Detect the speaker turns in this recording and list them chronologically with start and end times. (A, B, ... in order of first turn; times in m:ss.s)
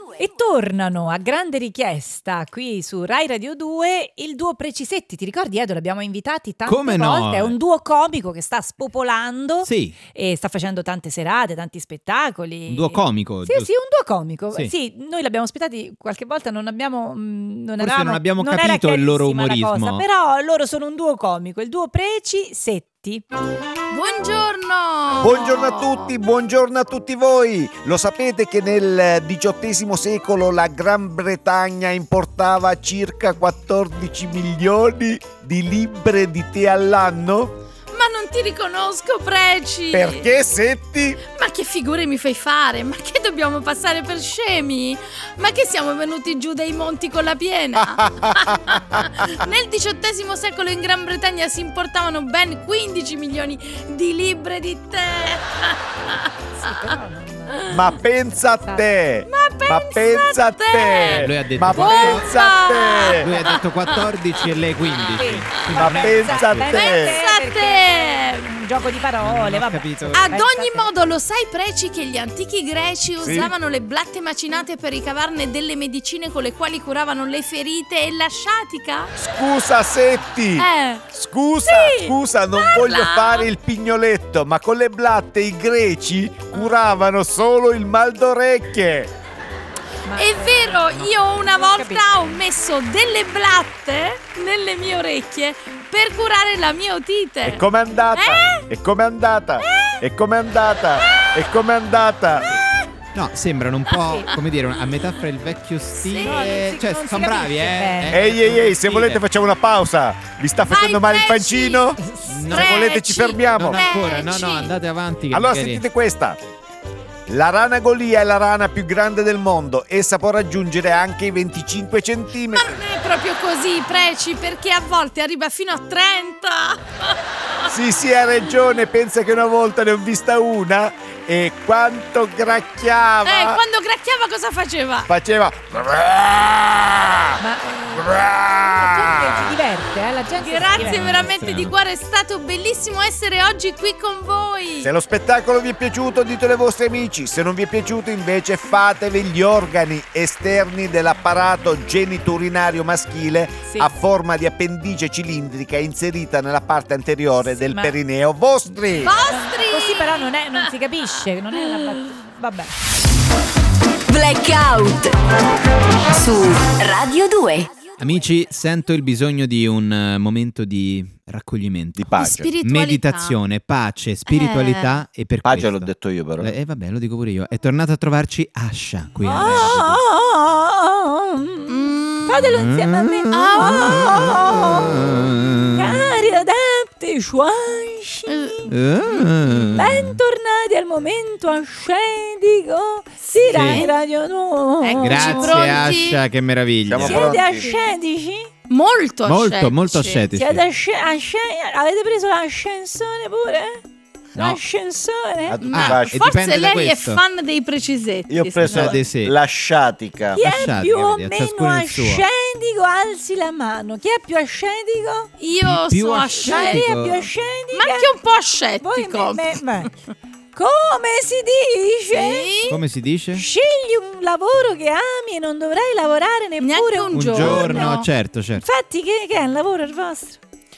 0:00.2-0:23.2 A
0:06.6-0:07.5 B
0:09.6-0:10.0 B
0:12.7-0:13.7 B
0:17.8-0:20.0 B
0:23.9-0:26.1 C
0:25.2-0:37.6 D
0:37.9-0:40.3 C
0:39.9-0:41.2 D
0:41.3-0:56.9 C
0:47.8-0:49.4 D
0:56.5-0:57.6 A
0:57.5-0:57.9 C
0:57.7-1:03.4 D
0:59.3-1:05.2 C
1:01.0-1:02.3 B
1:03.1-1:06.7 B
1:05.1-1:10.9 A
1:05.7-1:07.2 D
1:06.7-1:08.5 C
1:09.2-1:10.3 B
1:10.1-1:19.1 C
1:13.2-1:13.5 D
1:19.2-1:29.1 D
1:20.6-1:21.0 C
1:21.6-1:23.5 C
1:30.0-1:32.4 A
1:30.2-1:38.6 C
1:37.4-1:42.6 D
1:39.6-1:40.0 A
1:43.1-1:49.2 B
1:44.0-1:44.3 A
1:46.0-1:46.7 C
1:46.2-1:48.2 A
1:48.1-1:53.9 D
1:50.6-1:52.0 C
1:52.0-1:52.4 A
1:52.3-1:52.9 B
1:52.5-1:54.7 C
1:53.6-1:55.8 B
1:55.3-1:56.4 D
1:57.3-2:02.8 D
2:02.5-2:07.6 C
2:07.7-2:13.6 D
2:13.2-2:15.1 C
2:15.1-2:17.4 D
2:17.4-2:21.3 A
2:17.9-2:19.6 D
2:20.4-2:24.9 C
2:20.8-2:21.7 B
2:24.8-2:39.2 D
2:33.6-2:33.9 A
2:37.7-2:38.0 A
2:38.7-2:42.7 A
2:39.0-2:40.3 C
2:44.1-2:45.2 E
2:46.1-2:47.8 E
2:48.0-3:00.0 B
2:52.0-2:52.5 D
2:52.2-2:53.4 C
2:54.3-2:55.0 C
2:55.4-2:56.5 D
2:59.2-3:05.2 A
2:59.4-2:59.8 D
3:01.7-3:02.5 C
3:02.5-3:06.1 B
3:03.3-3:04.4 C
3:05.7-3:08.7 A
3:08.2-3:09.3 C
3:08.7-3:10.2 B
3:09.7-3:15.9 A
3:13.2-3:13.9 C
3:13.5-3:13.8 B
3:14.8-3:16.2 C
3:15.0-3:17.3 B
3:16.9-3:17.7 D
3:17.0-3:18.5 A
3:17.2-3:17.9 C
3:18.7-3:20.2 C
3:19.2-3:20.6 B
3:20.4-3:23.8 A
3:24.4-3:25.6 A
3:24.4-3:24.6 B
3:25.5-3:26.3 D
3:25.6-3:29.0 C
3:25.7-3:27.2 B
3:28.3-3:30.5 D
3:28.6-3:29.3 B
3:30.4-3:35.3 A
3:30.4-3:32.2 B
3:35.4-3:36.9 C
3:35.6-3:37.3 B
3:36.4-3:38.1 A
3:37.8-3:39.9 C
3:38.8-3:39.9 A
3:40.5-3:42.5 A
3:42.1-3:42.8 C
3:42.7-3:43.4 B
3:43.4-3:48.0 A
3:46.6-3:48.1 C
3:47.1-3:48.6 B
3:48.6-3:50.4 A